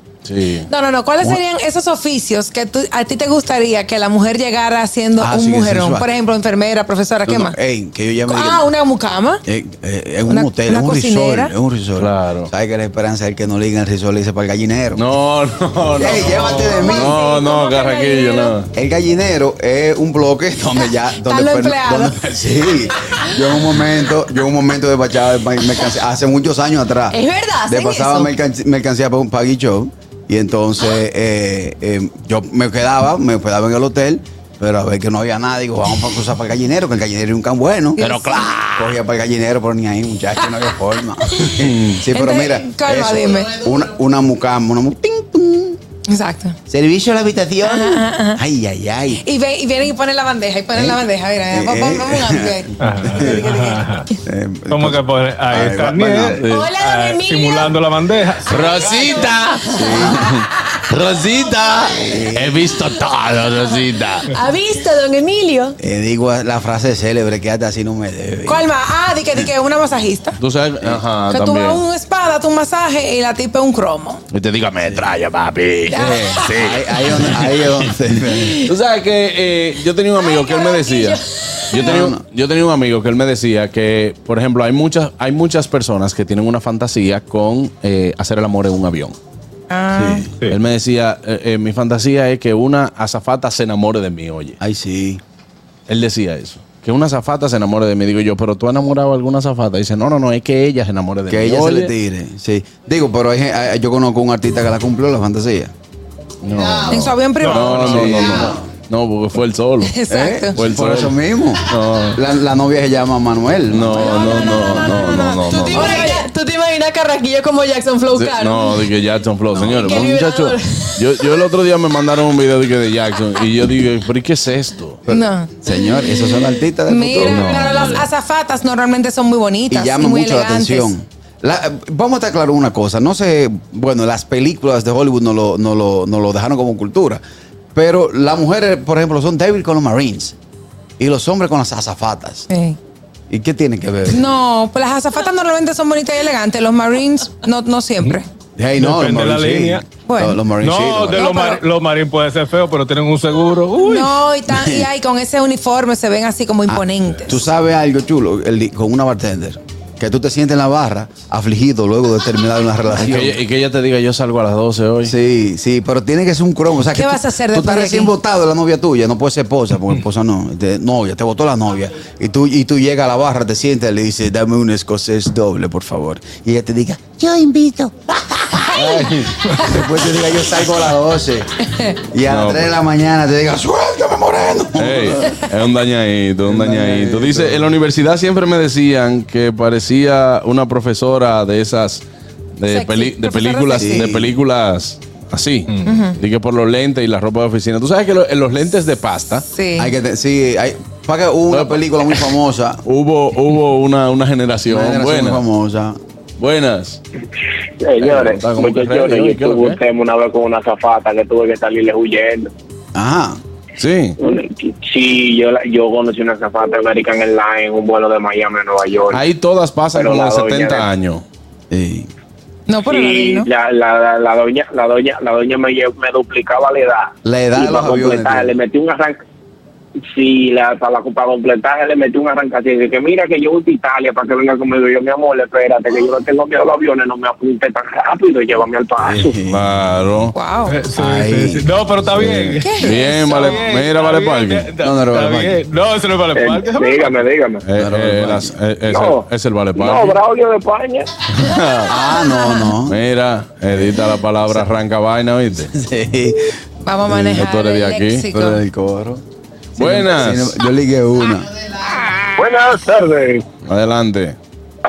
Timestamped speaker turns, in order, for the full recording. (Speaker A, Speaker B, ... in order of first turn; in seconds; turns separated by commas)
Speaker A: 0.2-0.7, Speaker B: 0.7-7.5, Speaker C: 5.2-6.1, Speaker C: 7.2-8.7, Speaker B: 8.3-9.4, Speaker C: 9.4-15.1, Speaker B: 10.3-11.5, Speaker A: 12.0-12.5, Speaker A: 14.9-18.7, Speaker C: 16.0-17.2, Speaker D: 16.0-18.6, Speaker C: 18.7-38.1, Speaker B: 20.9-22.2, Speaker D: 27.1-28.3, Speaker B: 38.0-38.6, Speaker A: 38.0-38.9, Speaker C: 38.7-45.8, Speaker A: 41.6-42.0, Speaker B: 42.1-43.6, Speaker B: 46.1-46.5, Speaker C: 46.7-49.2, Speaker B: 47.6-48.4, Speaker B: 49.2-52.7, Speaker C: 50.7-53.5, Speaker E: 52.8-54.1, Speaker D: 53.2-53.8, Speaker C: 54.2-56.4, Speaker E: 54.7-59.0, Speaker A: 56.4-56.7, Speaker D: 56.4-57.8, Speaker A: 58.5-64.3, Speaker D: 58.6-59.3, Speaker C: 59.7-60.3, Speaker C: 61.9-62.6, Speaker D: 64.3-65.8, Speaker C: 65.8-68.7, Speaker B: 68.5-70.4, Speaker A: 70.4-71.8, Speaker B: 71.2-74.2, Speaker A: 74.3-77.7, Speaker C: 74.8-75.1, Speaker B: 75.9-76.5, Speaker C: 76.0-78.7, Speaker A: 78.6-89.2, Speaker B: 80.2-81.9, Speaker C: 81.8-82.2, Speaker B: 89.7-90.2, Speaker C: 89.9-90.3, Speaker A: 90.5-94.6, Speaker C: 94.6-95.2, Speaker A: 95.9-101.9, Speaker C: 101.3-105.7, Speaker A: 106.4-110.0, Speaker C: 106.5-108.7, Speaker B: 106.9-108.5, Speaker E: 107.4-108.3, Speaker B: 109.8-110.5, Speaker C: 110.1-114.5, Speaker A: 110.5-111.2, Speaker A: 111.7-112.2, Speaker A: 113.7-116.0, Speaker B: 113.9-116.2, Speaker D: 115.7-118.9, Speaker A: 118.1-125.0, Speaker D: 119.5-121.0, Speaker C: 125.0-128.1, Speaker B: 125.1-126.1, Speaker B: 126.9-130.9, Speaker A: 127.2-127.6, Speaker C: 129.7-137.2, Speaker C: 137.7-140.3, Speaker C: 141.0-142.5, Speaker B: 142.5-142.8, Speaker C: 143.3-144.3, Speaker B: 144.1-148.3, Speaker C: 148.6-151.3, Speaker E: 148.8-149.8, Speaker B: 150.0-150.4, Speaker E: 150.6-154.2, Speaker B: 151.1-151.6, Speaker B: 153.8-157.4, Speaker C: 154.5-154.9, Speaker C: 156.7-163.4, Speaker A: 162.9-165.1, Speaker C: 165.0-185.4, Speaker B: 166.9-168.1, Speaker A: 178.7-179.4, Speaker A: 182.3-182.7, Speaker A: 184.8-192.0, Speaker C: 186.4-187.7, Speaker A: 192.6-199.4, Speaker B: 192.7-194.1, Speaker C: 193.8-194.4, Speaker B: 195.8-196.2, Speaker B: 199.5-199.9, Speaker C: 199.8-202.8, Speaker A: 201.5-201.8, Speaker A: 202.8-205.4, Speaker C: 204.7-206.0, Speaker A: 206.4-207.0, Speaker F: 207.8-212.5, Speaker A: 208.0-209.8, Speaker C: 212.9-213.4, Speaker A: 213.8-214.2, Speaker F: 214.2-219.2, Speaker A: 219.1-221.2, Speaker F: 219.9-220.9, Speaker C: 221.7-222.1, Speaker B: 222.7-223.5, Speaker F: 222.8-229.2, Speaker C: 227.2-228.6, Speaker F: 230.1-239.3, Speaker C: 239.0-239.6, Speaker A: 239.5-240.3, Speaker B: 240.3-240.8, Speaker E: 240.7-247.2, Speaker C: 240.9-241.7, Speaker A: 242.1-244.7, Speaker B: 242.6-243.6, Speaker C: 244.8-245.6, Speaker F: 246.3-247.6, Speaker A: 247.6-250.2, Speaker C: 247.8-248.5, Speaker F: 248.9-249.2, Speaker F: 249.8-251.1, Speaker A: 251.3-251.9, Speaker C: 251.8-253.0, Speaker B: 252.0-252.7, Speaker A: 252.9-255.7, Speaker C: 253.7-254.7, Speaker C: 255.7-256.5, Speaker B: 256.8-258.6, Speaker C: 257.1-257.5, Speaker A: 257.3-258.3, Speaker C: 258.3-259.2, Speaker C: 259.7-261.5, Speaker A: 259.8-260.6, Speaker F: 262.4-263.4, Speaker A: 263.6-264.4